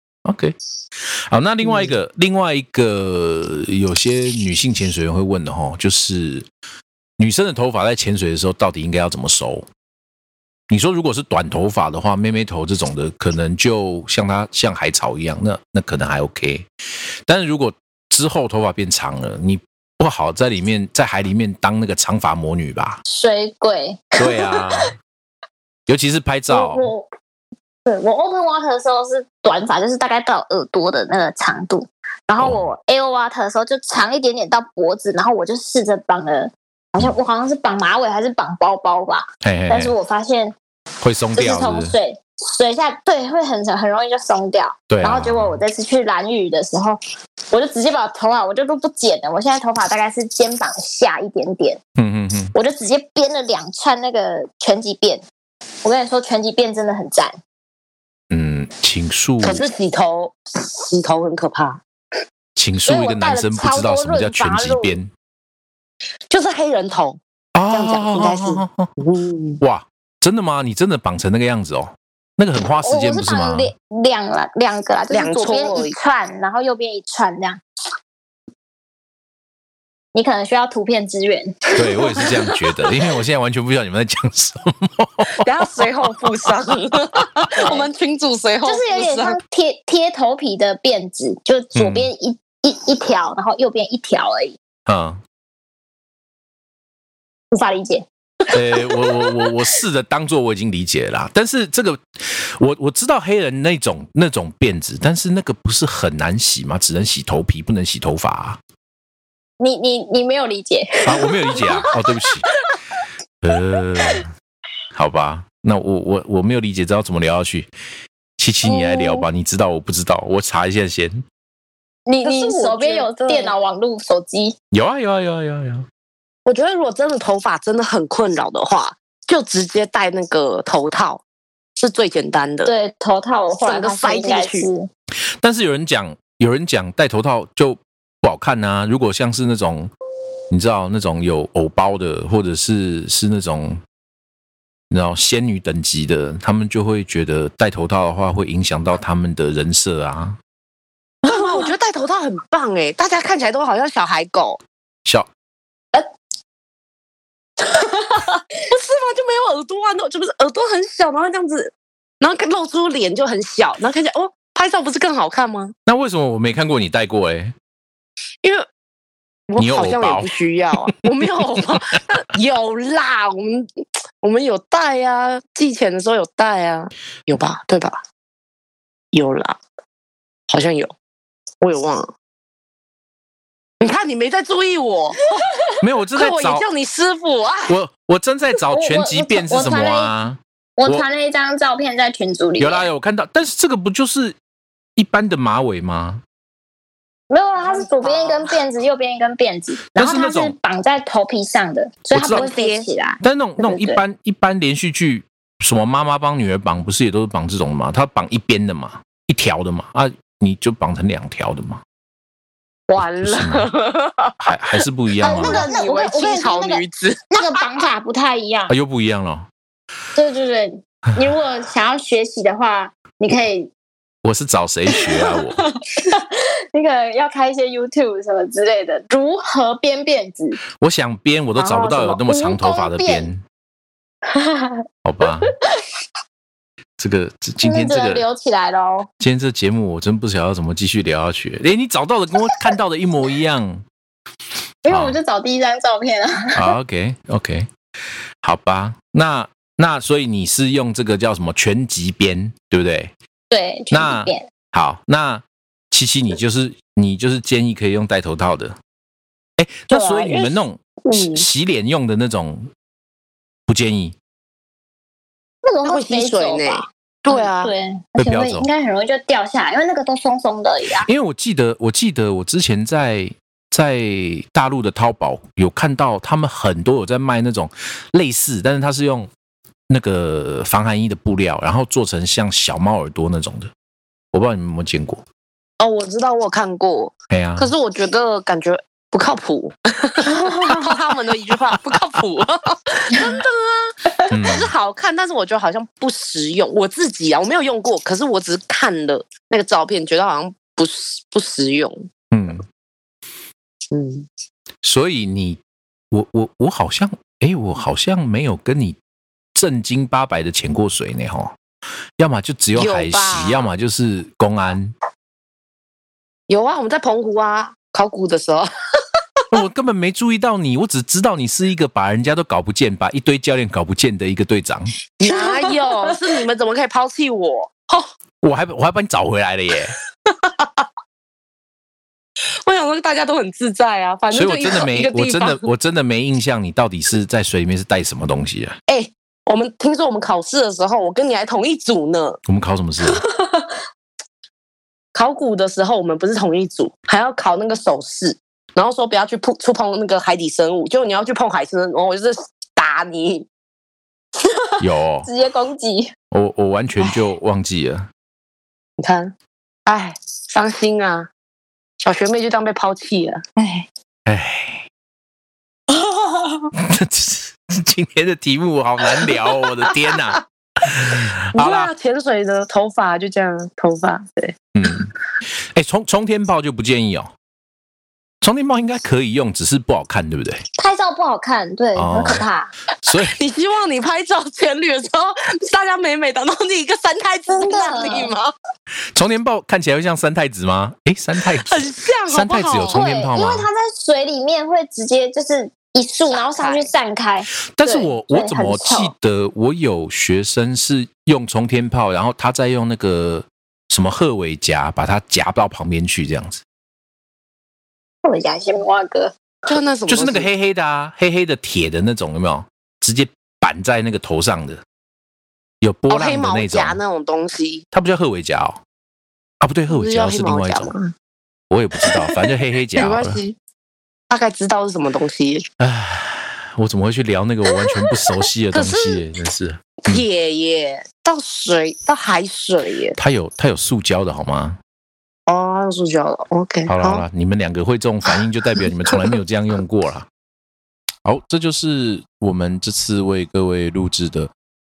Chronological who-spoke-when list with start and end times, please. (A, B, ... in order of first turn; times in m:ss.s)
0:00.2-0:06.5 A
0:01.6-0:02.0 B
0:07.2-0:09.7 A
0:10.7-0:16.7 A
0:17.3-0:23.0 A
0:23.1-0:24.7 C
0:24.2-0:24.9 A
0:25.9-0:26.9 A
0:26.5-0:27.1 C
0:27.9-0:40.6 C
0:39.4-0:40.0 A
0:41.0-0:42.0 A
0:41.4-0:47.0 C
0:44.9-0:45.6 A
0:47.5-0:51.8 C
0:52.0-0:52.5 A
0:52.6-0:55.2 C
0:55.8-0:57.4 C
0:58.3-0:59.6 A
0:59.4-1:01.8 B
1:02.6-1:05.1 A
1:02.9-1:05.0 C
1:06.3-1:07.2 B
1:07.6-1:08.9 A
1:07.7-1:09.6 B
1:09.6-1:13.7 A
1:12.8-1:17.6 C
1:15.1-1:15.9 B
1:20.1-1:22.9 C
1:21.8-1:26.5 A
1:25.4-1:29.4 B
1:28.6-1:34.6 C
1:31.8-1:32.1 A
1:34.9-1:35.2 A
1:37.5-1:39.5 C
1:38.5-1:48.6 A
1:49.6-1:51.9 C
1:51.0-1:52.5 A
1:53.4-1:54.3 A
1:54.9-1:57.7 A
1:58.4-2:01.2 A
1:58.6-1:59.3 C
2:02.1-2:04.6 C
2:02.2-2:03.6 B
2:04.7-2:05.9 A
2:06.5-2:11.2 B
2:11.8-2:12.7 B
2:12.6-2:14.9 C
2:13.6-2:14.7 B
2:15.4-2:19.9 A
2:20.5-2:23.8 A
2:24.9-2:30.4 A
2:31.2-2:31.7 C
2:31.3-2:34.6 B
2:37.6-2:38.4 C
2:38.7-2:45.7 B
2:45.9-2:47.5 A
2:49.5-2:53.7 B
2:49.6-2:50.3 A
2:51.5-2:51.8 A
2:54.2-2:58.0 B
2:59.1-2:59.6 B
3:00.5-3:00.9 B
3:01.6-3:02.1 B
3:03.8-3:05.5 B
3:05.8-3:06.6 A
3:06.2-3:07.8 B
3:07.7-3:11.0 A
3:08.7-3:10.1 C
3:10.8-3:12.9 C
3:12.6-3:14.4 A
3:15.0-3:16.2 A
3:17.3-3:24.0 C
3:17.6-3:18.6 B
3:19.9-3:20.6 A
3:22.1-3:22.5 A
3:22.2-3:22.9 B
3:23.2-3:31.8 A
3:32.9-3:34.8 B
3:33.0-3:33.7 A
3:34.4-3:35.6 A
3:35.2-3:38.8 C
3:35.3-3:37.8 B
3:38.7-3:39.5 A
3:40.2-3:43.7 C
3:44.2-3:45.6 A
3:44.9-3:50.6 C
3:50.8-3:53.4 A
3:51.6-3:53.3 C
3:54.3-3:54.8 C
3:55.0-3:55.5 A
3:57.0-3:58.2 A
3:57.6-3:59.1 C
3:59.2-4:03.8 A
4:04.8-4:06.8 C
4:04.9-4:05.2 A
4:06.6-4:07.7 A
4:08.4-4:13.1 A
4:13.5-4:14.5 C
4:13.9-4:18.8 A
4:19.6-4:22.7 A
4:19.9-4:21.4 C
4:23.7-4:24.2 A
4:25.6-4:31.1 C
4:25.8-4:27.7 B
4:28.2-4:28.7 A
4:31.0-4:39.3 A
4:39.9-4:43.7 A
4:44.3-4:45.2 A
4:45.8-5:02.1 B
4:47.3-4:47.7 A
4:50.2-4:50.9 C
4:54.3-4:54.7 A
5:02.3-5:02.6 A
5:03.9-5:04.3 B
5:04.8-5:09.0 A
5:09.6-5:11.6 A
5:12.2-5:15.0 A
5:12.8-5:13.7 B
5:16.5-5:18.7 B
5:19.5-5:24.9 A
5:25.2-5:28.1 B
5:25.3-5:26.0 C
5:28.4-5:30.0 A
5:30.3-5:30.8 B
5:32.6-5:35.6 B
5:34.3-5:38.8 A
5:38.9-5:42.4 B
5:42.5-5:43.2 A
5:45.2-5:53.5 B
5:54.8-5:55.3 A
5:55.2-5:56.1 C
5:56.3-5:58.1 A
5:59.0-5:59.3 B
5:59.9-6:01.3 B
6:02.0-6:03.6 B
6:03.6-6:03.8 C
6:04.3-6:04.9 A
6:06.8-6:11.9 A
6:11.5-6:14.6 B
6:14.8-6:15.1 A
6:15.7-6:17.3 A
6:18.4-6:20.6 A
6:20.8-6:22.7 C
6:22.0-6:22.4 A
6:23.0-6:23.4 A
6:23.1-6:28.5 B
6:27.5-6:28.3 C
6:29.1-6:33.7 A
6:31.6-6:33.0 B
6:32.9-6:39.1 C
6:36.3-6:36.9 B
6:37.8-6:46.6 A
6:48.2-6:49.3 C
6:49.7-6:50.5 B
6:50.1-6:54.8 A
6:55.8-6:57.0 A
6:56.1-6:57.8 B
6:57.9-6:58.8 A
6:59.6-7:00.9 A
6:59.9-7:01.1 B
7:01.7-7:03.4 A
7:02.0-7:03.6 B
7:04.3-7:05.6 B
7:05.8-7:10.2 A
7:08.7-7:09.2 B
7:10.0-7:13.2 B
7:13.2-7:14.8 A
7:15.5-7:17.3 B
7:16.9-7:20.3 A
7:19.1-7:19.4 B
7:21.2-7:24.5 A